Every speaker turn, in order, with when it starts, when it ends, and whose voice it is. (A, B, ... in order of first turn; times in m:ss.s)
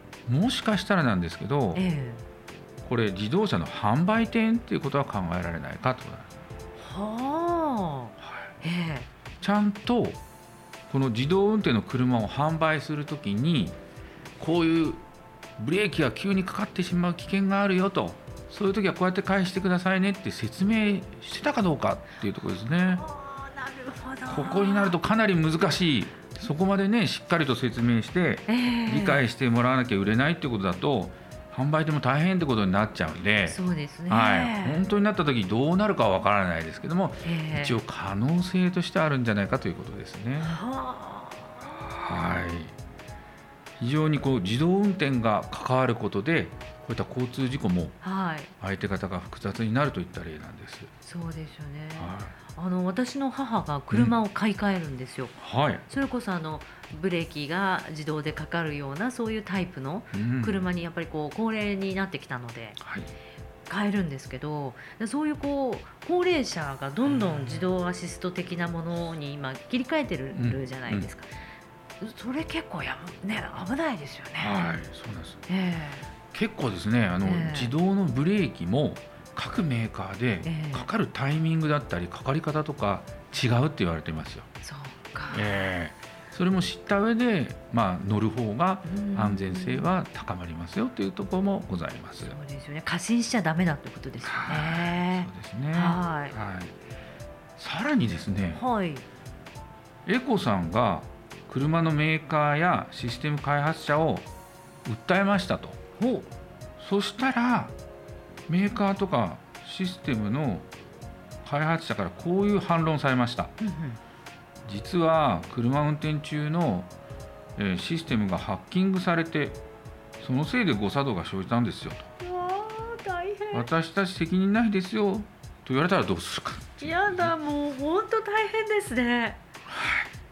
0:00.2-0:01.8 A
0:01.7-0:02.2 B
0:02.8-0:06.4 A
0:06.8-0:09.1 B
0:08.2-0:08.5 A
0:09.4-0:10.2 A
0:10.9-0:13.8 A
0:14.4-0:15.0 A
0:15.6-0:23.0 A
0:22.7-0:25.0 B
0:24.3-0:40.6 A
0:28.5-0:29.2 B
0:33.4-0:34.8 B
0:37.2-0:37.8 B
0:40.4-0:41.8 B
0:41.8-0:42.8 A
0:43.8-0:48.0 A
0:48.0-0:48.5 B
0:48.6-0:50.9 A
0:51.0-0:55.4 B
0:52.0-0:52.3 A
0:55.4-0:55.8 A
0:55.9-1:02.8 B
1:00.1-1:00.6 A
1:02.8-1:03.1 A
1:03.7-1:11.3 B
1:07.1-1:07.6 A
1:10.3-1:11.1 A
1:12.0-1:14.6 B
1:14.4-1:15.4 A
1:15.5-1:16.1 B
1:16.3-1:24.5 A
1:17.2-1:17.7 B
1:20.4-1:20.9 B
1:24.6-1:25.7 B
1:25.3-1:32.4 A
1:28.8-1:29.9 B
1:32.2-1:36.4 B
1:34.2-1:36.7 A
1:37.6-1:38.6 A
1:38.5-1:39.0 B
1:40.0-1:44.3 A
1:44.8-1:45.8 A
1:46.0-1:46.3 B
1:46.8-1:47.7 A
1:48.5-1:50.7 A
1:51.4-1:53.5 A
1:53.6-1:54.0 B
1:54.6-1:56.9 A
1:57.6-1:59.6 A
2:00.2-2:02.1 A
2:02.2-2:03.7 B
2:03.5-2:07.3 A
2:06.8-2:09.4 B
2:09.7-2:10.1 A